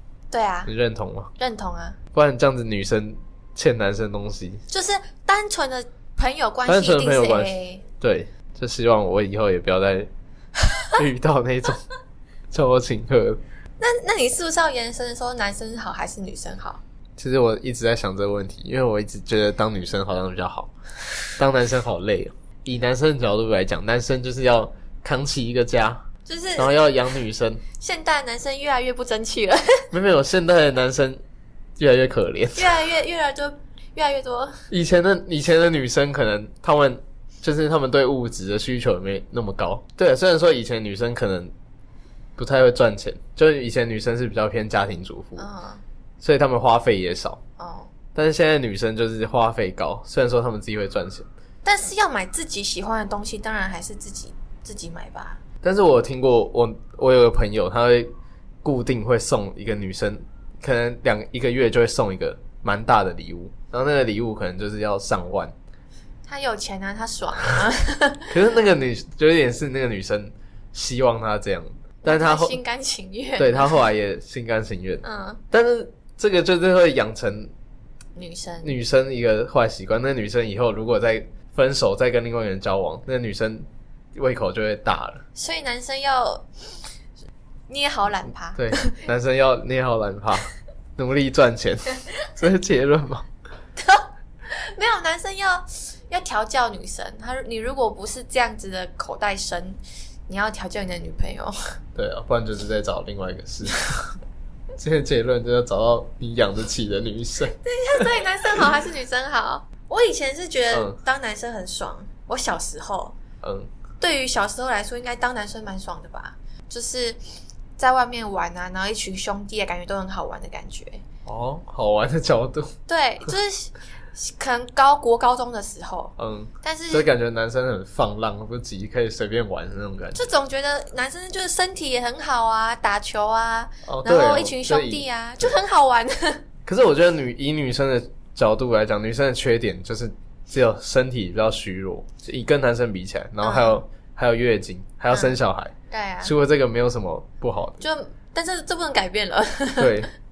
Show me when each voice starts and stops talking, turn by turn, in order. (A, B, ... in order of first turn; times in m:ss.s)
0:00.3-0:00.7 A
0:00.6-0:01.3 B
0:01.4-0:02.0 A
0:02.1-0:04.6 B
0:04.7-0:07.8 A
0:06.6-0:10.1 B
0:11.0-0:11.8 B
0:12.5-0:13.4 B
0:13.8-0:16.8 A
0:17.2-0:20.7 B
0:21.4-0:26.0 B
0:26.2-0:26.9 A
0:26.6-0:27.6 B
0:27.8-0:29.8 A
0:29.9-0:31.2 B
0:31.8-0:32.8 B
0:32.6-0:34.6 A
0:34.7-0:41.5 B
0:42.4-0:45.5 B
0:45.4-0:45.8 A
0:46.2-0:47.4 B
0:47.6-0:47.9 A
0:48.1-0:51.3 B
0:51.6-0:55.4 A
0:55.6-0:58.1 B
0:58.6-1:05.5 B
1:06.2-1:08.3 A
1:08.3-1:12.6 B
1:12.0-1:13.8 A
1:13.4-1:17.5 B
1:15.0-1:15.4 A
1:18.1-1:18.8 A
1:18.6-1:25.2 B
1:25.3-1:26.8 A
1:27.7-1:28.9 A
1:28.6-1:33.2 B
1:33.8-1:41.5 A
1:42.0-1:44.1 B
1:44.8-1:47.6 B
1:47.6-1:53.2 A
1:50.7-1:51.0 B
1:53.4-1:53.7 B
1:54.0-1:57.2 A
1:57.8-2:01.0 A
2:01.2-2:02.7 B
2:02.9-2:07.1 A
2:06.2-2:10.2 B
2:10.1-2:16.4 A
2:13.8-2:15.6 B
2:16.6-2:27.8 B
2:23.4-2:23.8 A
2:25.1-2:25.4 A
2:25.9-2:26.3 A
2:27.8-2:30.0 A
2:29.8-2:30.1 B